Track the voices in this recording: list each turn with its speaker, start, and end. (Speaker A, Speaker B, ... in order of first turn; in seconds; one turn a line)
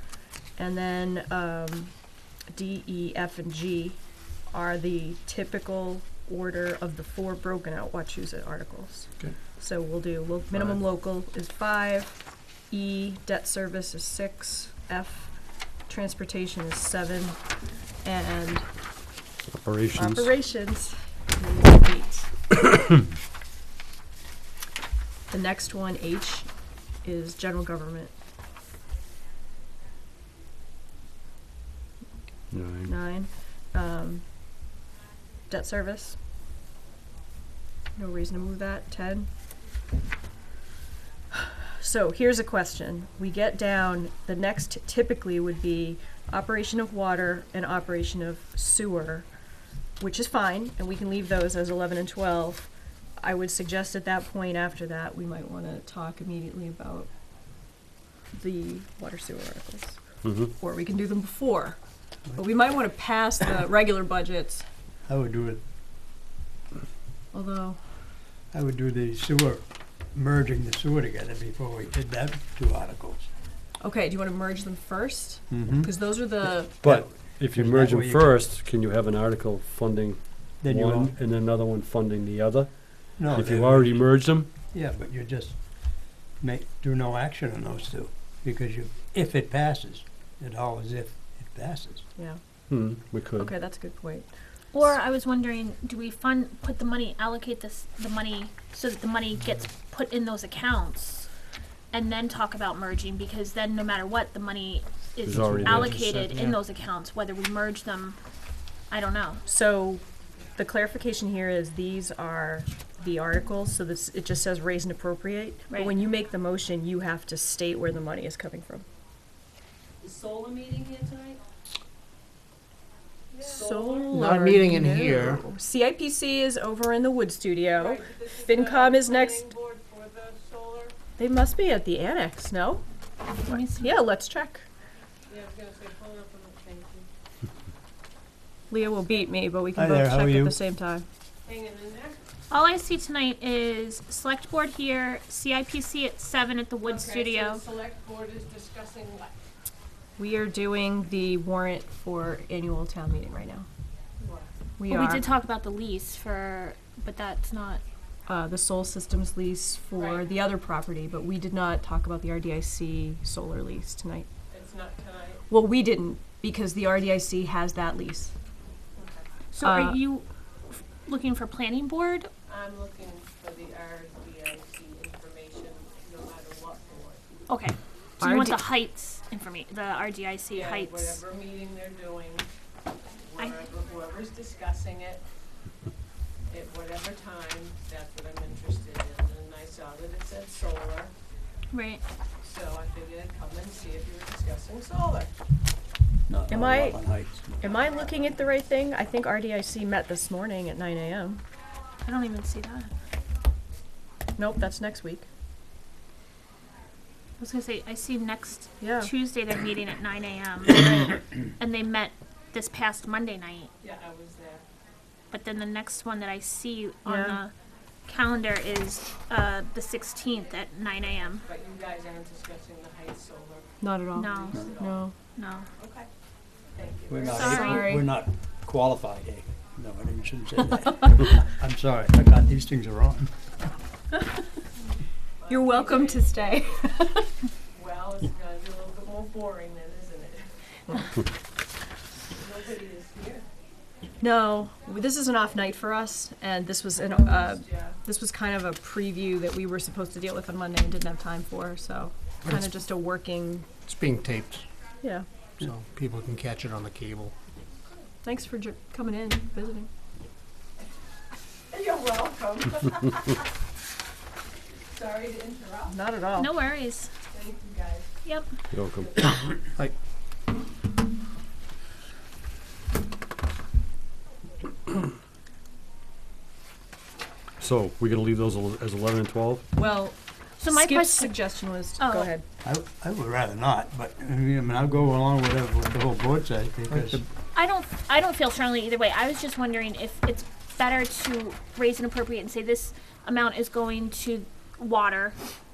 Speaker A: 0.5-1.9
Speaker A: 2.5-4.0
Speaker A: 4.5-15.3
Speaker A: 15.9-17.4
Speaker A: 18.0-18.7
Speaker B: 19.4-20.3
Speaker A: 19.9-22.3
Speaker A: 25.3-26.5
Speaker A: 27.0-28.1
Speaker B: 32.5-32.9
Speaker A: 32.9-34.2
Speaker A: 35.5-36.2
Speaker A: 38.0-39.3
Speaker A: 41.3-49.3
Speaker A: 50.0-52.7
Speaker A: 53.2-57.1
Speaker A: 58.4-60.0
Speaker B: 60.2-60.5
Speaker A: 60.5-61.8
Speaker A: 62.3-64.6
Speaker C: 65.1-65.6
Speaker A: 67.3-67.8
Speaker C: 68.5-73.3
Speaker A: 73.8-76.8
Speaker C: 75.5-75.9
Speaker B: 76.8-84.5
Speaker C: 76.8-78.3
Speaker C: 80.6-81.1
Speaker C: 83.2-84.1
Speaker C: 84.7-92.0
Speaker B: 92.7-93.5
Speaker A: 93.4-94.3
Speaker D: 94.7-101.3
Speaker D: 101.9-108.2
Speaker B: 105.2-106.0
Speaker E: 105.5-106.6
Speaker D: 108.9-109.4
Speaker A: 109.5-110.0
Speaker A: 110.5-118.8
Speaker F: 120.0-121.4
Speaker F: 123.3-124.2
Speaker A: 123.4-129.5
Speaker E: 124.1-125.4
Speaker F: 127.7-130.9
Speaker A: 131.2-132.8
Speaker D: 133.4-133.9
Speaker A: 133.5-134.7
Speaker F: 135.3-137.1
Speaker A: 138.7-141.1
Speaker C: 139.7-140.6
Speaker F: 141.4-142.2
Speaker D: 142.5-147.6
Speaker F: 146.8-149.3
Speaker A: 150.2-153.7
Speaker F: 154.2-154.5
Speaker A: 154.8-155.3
Speaker D: 154.9-157.8
Speaker A: 158.3-164.3
Speaker F: 160.0-160.2
Speaker F: 164.5-165.4
Speaker A: 165.5-168.3
Speaker F: 168.9-169.2
Speaker D: 169.5-172.3
Speaker A: 169.6-170.0
Speaker F: 172.5-177.4
Speaker D: 177.5-181.2
Speaker A: 178.2-178.6
Speaker F: 180.5-182.5
Speaker F: 183.3-185.2
Speaker F: 186.5-191.1
Speaker D: 191.7-192.0
Speaker F: 192.4-195.3
Speaker C: 196.3-197.8
Speaker A: 196.5-201.4
Speaker F: 197.7-198.3
Speaker D: 202.1-202.9
Speaker A: 204.3-205.3
Speaker D: 207.4-213.7
Speaker A: 208.8-209.1
Speaker F: 213.8-214.6
Speaker D: 215.3-217.5
Speaker A: 217.1-217.4
Speaker D: 218.1-221.4
Speaker F: 221.3-225.1
Speaker A: 223.8-225.1
Speaker D: 224.1-224.7
Speaker D: 225.3-225.7
Speaker F: 225.8-226.1
Speaker F: 226.7-227.7
Speaker C: 227.1-233.3
Speaker D: 227.3-228.0
Speaker A: 227.4-228.1
Speaker F: 235.4-236.8
Speaker A: 235.5-237.3
Speaker F: 237.7-241.1
Speaker F: 242.4-243.4
Speaker A: 244.2-253.7
Speaker F: 247.0-247.9
Speaker E: 253.8-254.6
Speaker E: 255.6-257.3
Speaker A: 258.2-259.9
Speaker F: 261.7-263.4
Speaker F: 264.9-265.9
Speaker A: 265.9-266.5
Speaker D: 266.4-267.1
Speaker F: 267.3-268.1
Speaker B: 268.7-269.1
Speaker B: 277.6-279.6
Speaker A: 279.7-282.4
Speaker D: 280.6-281.4
Speaker D: 282.0-282.3
Speaker C: 282.6-287.2
Speaker E: 286.9-287.2
Speaker D: 287.5-295.4